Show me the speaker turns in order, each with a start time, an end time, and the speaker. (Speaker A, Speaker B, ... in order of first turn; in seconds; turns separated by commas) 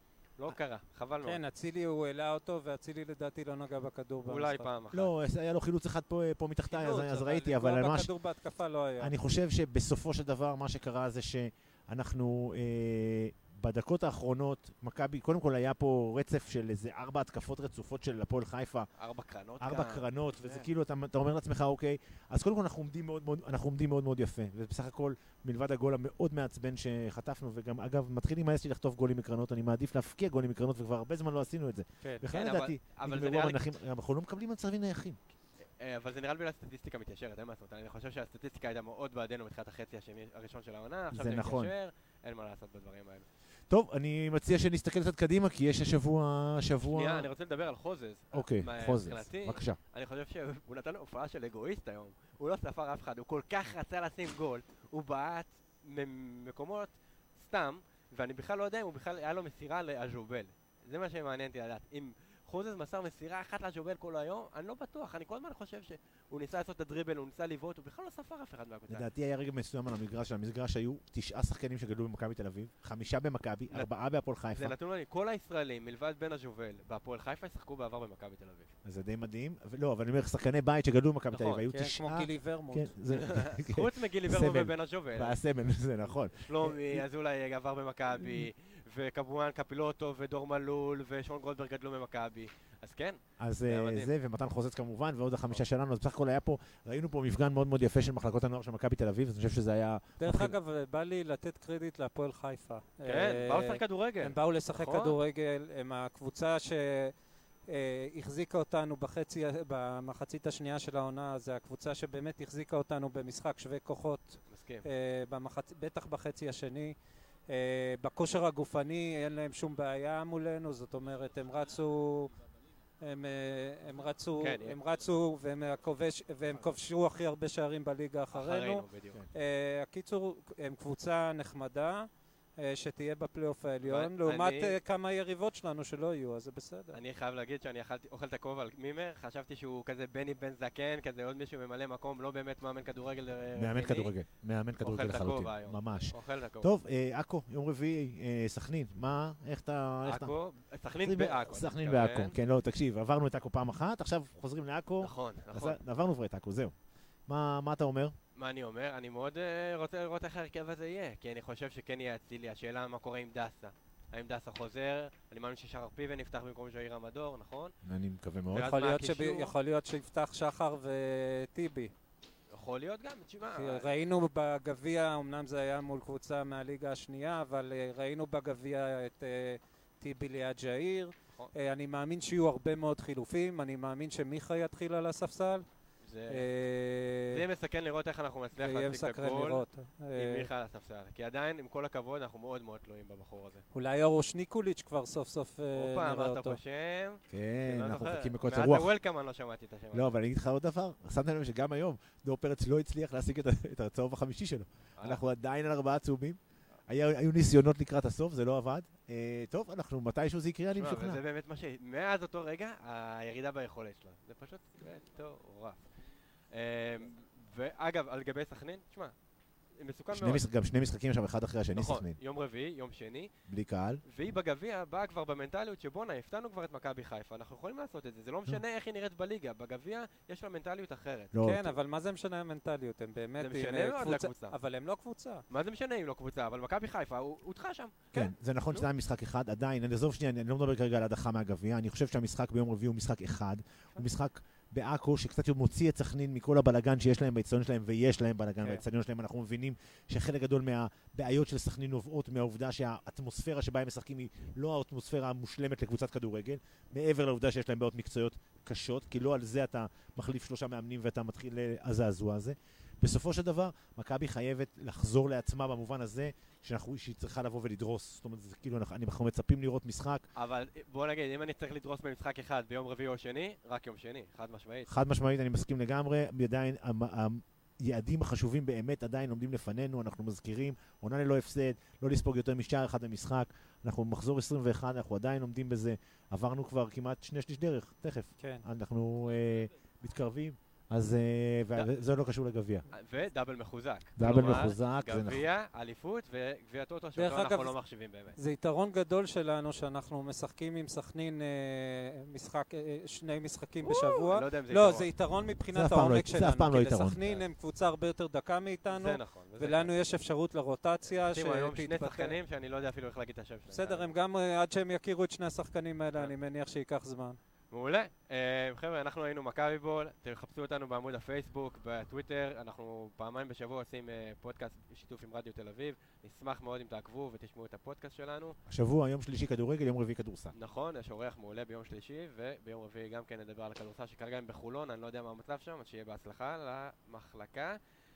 Speaker A: 0.4-1.4, Speaker B: 1.2-4.7, Speaker A: 4.2-5.1, Speaker C: 4.9-8.1, Speaker B: 6.7-9.1, Speaker C: 9.0-18.9, Speaker A: 19.0-20.7, Speaker C: 19.6-35.2, Speaker A: 32.0-33.7, Speaker A: 35.8-43.3, Speaker C: 41.1-41.7, Speaker C: 43.7-47.3, Speaker A: 46.9-69.1, Speaker C: 48.3-49.8, Speaker C: 68.9-74.7, Speaker A: 73.7-78.7, Speaker C: 78.8-87.1, Speaker A: 81.3-81.6, Speaker B: 81.7-82.9, Speaker A: 83.1-85.4, Speaker A: 86.1-94.1, Speaker C: 88.1-88.5, Speaker C: 93.4-100.6, Speaker B: 100.2-107.1, Speaker A: 103.0-105.2, Speaker B: 107.7-117.0, Speaker A: 114.5-114.8, Speaker B: 117.5-122.3, Speaker B: 123.0-137.0, Speaker A: 124.4-124.8, Speaker A: 128.3-129.2, Speaker A: 133.8-134.8, Speaker A: 136.9-144.2, Speaker C: 143.6-150.3, Speaker A: 144.8-146.7, Speaker A: 150.1-152.4, Speaker C: 151.0-156.7, Speaker A: 155.0-155.8, Speaker C: 157.3-158.2, Speaker A: 158.3-167.7, Speaker C: 167.8-168.7, Speaker A: 168.5-169.6, Speaker B: 168.7-171.9, Speaker A: 172.5-173.9, Speaker B: 173.5-185.7, Speaker A: 186.0-186.5, Speaker B: 186.3-187.4, Speaker A: 187.3-193.7, Speaker B: 188.6-190.5, Speaker B: 193.7-196.6, Speaker A: 195.7-200.2, Speaker C: 197.3-198.9, Speaker C: 199.9-211.2, Speaker A: 205.0-205.2, Speaker A: 210.7-215.8, Speaker A: 216.5-219.1, Speaker A: 219.8-220.5, Speaker C: 220.1-222.2, Speaker A: 221.7-223.3, Speaker C: 223.5-224.0, Speaker A: 223.9-231.4, Speaker C: 231.3-231.7, Speaker B: 231.4-235.4, Speaker A: 233.4-234.6, Speaker A: 235.5-238.9, Speaker C: 238.1-270.3, Speaker A: 270.4-274.9, Speaker C: 274.9-292.9, Speaker B: 288.4-288.6, Speaker A: 292.9-298.4, Speaker C: 294.2-295.4, Speaker B: 297.2-297.8, Speaker B: 298.4-312.4, Speaker A: 303.8-305.1, Speaker C: 305.7-307.2, Speaker A: 308.9-310.0, Speaker A: 311.1-314.1, Speaker B: 313.7-317.4, Speaker A: 317.7-328.6, Speaker C: 328.7-330.5, Speaker A: 330.5-337.8